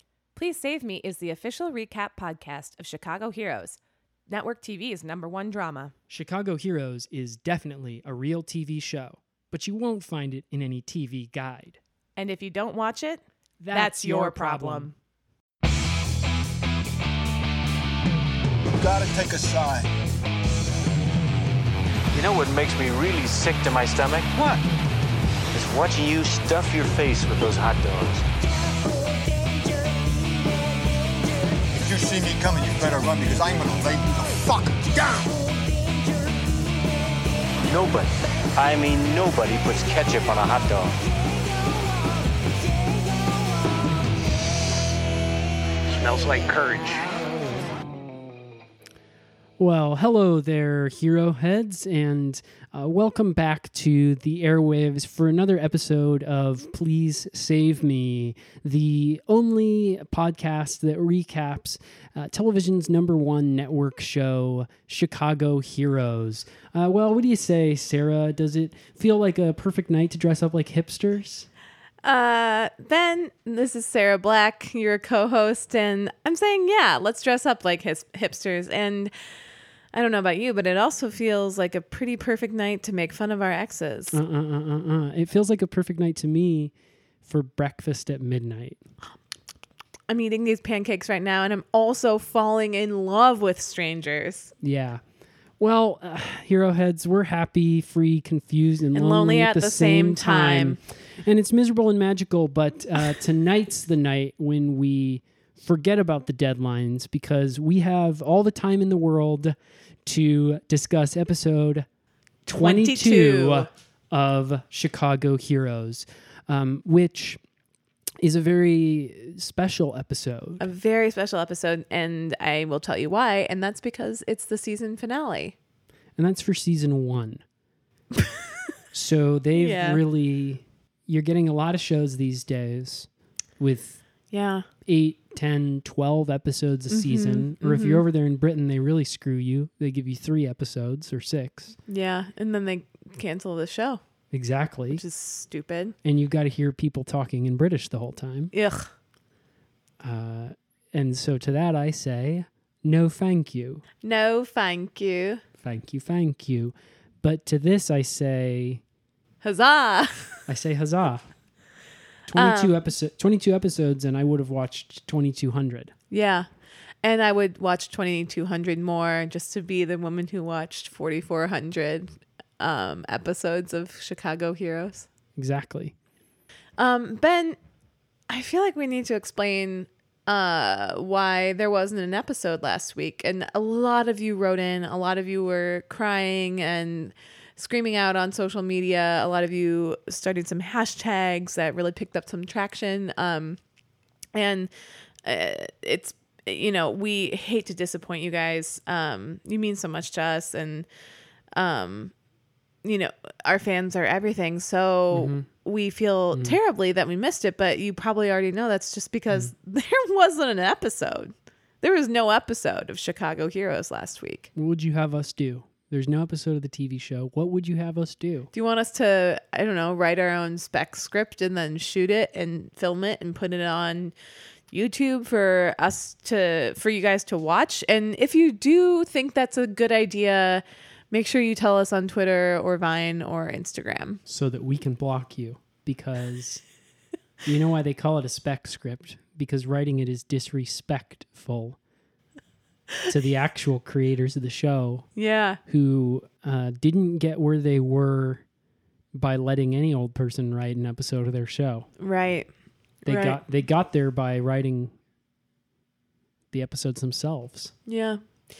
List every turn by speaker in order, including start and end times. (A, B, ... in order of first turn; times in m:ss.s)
0:00.3-0:03.8 A
0:04.3-0:05.9 A
0:06.1-0:11.8 B
0:12.2-0:13.2 A
0:13.6-0:14.9 B
0:13.7-0:14.9 A
0:18.8-0:19.9 C
0:22.1-0:24.3 D
0:24.4-0:24.6 C
0:25.5-0:28.3 D
0:31.8-0:35.4 C
0:37.6-0:41.0 D
0:45.9-0:47.2 D
0:49.6-1:11.5 B
1:12.0-1:19.1 A
1:19.9-1:24.2 A
1:24.1-1:26.7 B
1:27.2-1:28.8 B
1:30.1-1:34.5 A
1:34.6-1:35.0 B
1:35.6-1:51.8 B
1:38.9-1:40.8 A
1:52.4-1:57.4 B
1:52.5-1:53.7 A
1:58.2-2:00.6 B
2:00.6-2:05.5 A
2:06.2-2:07.4 B
2:08.9-2:14.0 B
2:09.5-2:10.0 A
2:14.3-2:14.7 A
2:14.8-2:21.8 B
2:16.9-2:18.0 A
2:21.9-2:24.0 A
2:24.3-2:25.0 B
2:24.9-2:25.9 A
2:26.0-2:28.5 B
2:28.5-2:28.9 A
2:30.0-2:33.8 B
2:34.0-2:35.4 A
2:35.6-2:38.8 B
2:39.4-2:40.4 A
2:40.5-2:41.3 B
2:42.3-2:45.9 B
2:42.4-2:42.8 A
2:46.1-2:46.5 A
2:47.0-2:55.1 A
2:55.4-2:55.9 B
2:56.8-2:57.6 A
2:58.3-3:13.6 A
3:14.3-3:14.7 A
3:15.2-3:20.8 A
3:21.5-3:22.1 A
3:22.8-3:34.5 A
3:25.1-3:25.5 B
3:34.5-3:38.5 B
3:38.5-3:44.1 A
3:44.7-3:54.2 A
3:54.2-3:56.6 B
3:57.4-4:01.8 B
4:03.1-4:05.1 B
4:05.2-4:05.6 A
4:05.7-4:08.4 B
4:09.1-4:11.9 B
4:12.0-4:12.5 A
4:13.0-4:14.9 B
4:13.0-4:13.4 A
4:16.5-4:17.7 B
4:17.8-4:18.2 A